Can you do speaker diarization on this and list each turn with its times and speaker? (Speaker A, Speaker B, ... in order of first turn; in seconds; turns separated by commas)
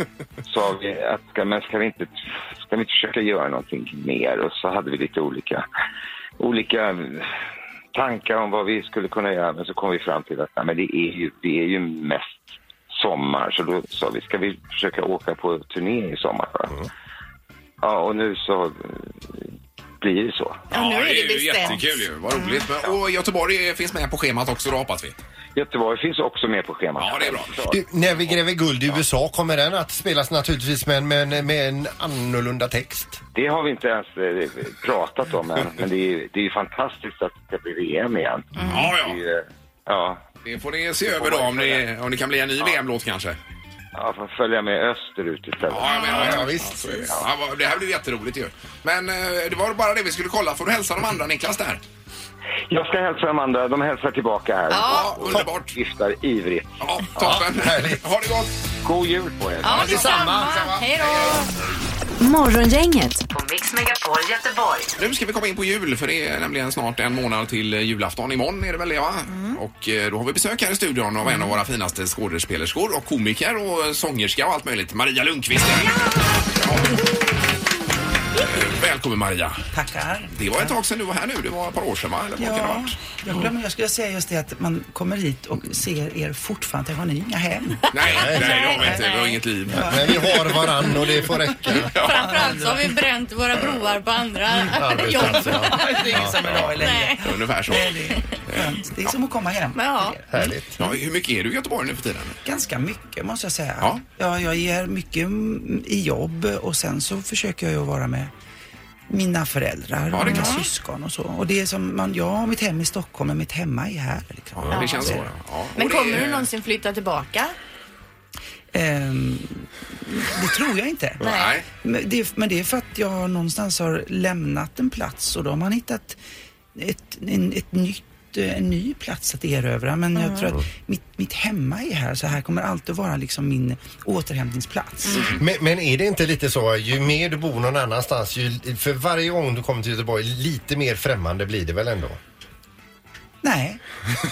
Speaker A: 0.5-5.7, Speaker A: 6.4-7.3, Speaker A: 7.9-16.7, Speaker A: 17.8-19.4, Speaker A: 20.0-20.6, Speaker B: 20.7-22.7, Speaker C: 20.7-25.1, Speaker A: 25.6-27.8, Speaker C: 27.0-27.6, Speaker D: 27.7-33.2, Speaker A: 33.3-40.2, Speaker B: 38.6-38.9, Speaker C: 38.6-39.2, Speaker C: 40.4-43.4, Speaker A: 41.2-41.8, Speaker A: 44.0-47.2, Speaker C: 45.7-51.8, Speaker B: 45.9-46.4, Speaker D: 46.1-47.1, Speaker A: 52.7-57.4, Speaker B: 54.7-55.2, Speaker C: 54.9-55.8, Speaker C: 56.8-58.5, Speaker D: 57.2-58.0, Speaker A: 58.8-60.0, Speaker B: 59.6-61.5, Speaker C: 59.7-61.4, Speaker D: 59.7-60.4, Speaker E: 62.2-64.9, Speaker C: 65.0-77.0, Speaker B: 69.3-69.6, Speaker C: 78.4-79.6, Speaker F: 79.7-80.8, Speaker C: 80.3-83.0, Speaker F: 82.4-87.9, Speaker C: 87.9-90.5, Speaker D: 88.0-89.0, Speaker B: 88.4-89.4, Speaker F: 88.7-89.0, Speaker F: 89.7-90.7, Speaker D: 89.8-92.0, Speaker C: 91.8-92.5, Speaker B: 91.9-96.2, Speaker F: 91.9-92.9, Speaker D: 94.7-96.4, Speaker F: 95.0-100.5, Speaker C: 96.3-99.2, Speaker B: 96.7-98.2, Speaker B: 99.7-100.2, Speaker D: 100.3-100.9, Speaker C: 100.8-102.4, Speaker F: 102.5-108.3, Speaker F: 109.1-115.3, Speaker C: 110.1-110.7, Speaker B: 110.3-110.7, Speaker C: 114.6-116.5, Speaker B: 114.7-115.2, Speaker B: 115.8-117.5, Speaker F: 118.7-121.3, Speaker B: 121.2-121.5, Speaker C: 121.2-121.7, Speaker F: 121.8-126.2, Speaker F: 126.8-135.3, Speaker B: 130.2-130.5, Speaker D: 135.3-142.2, Speaker F: 143.4-143.8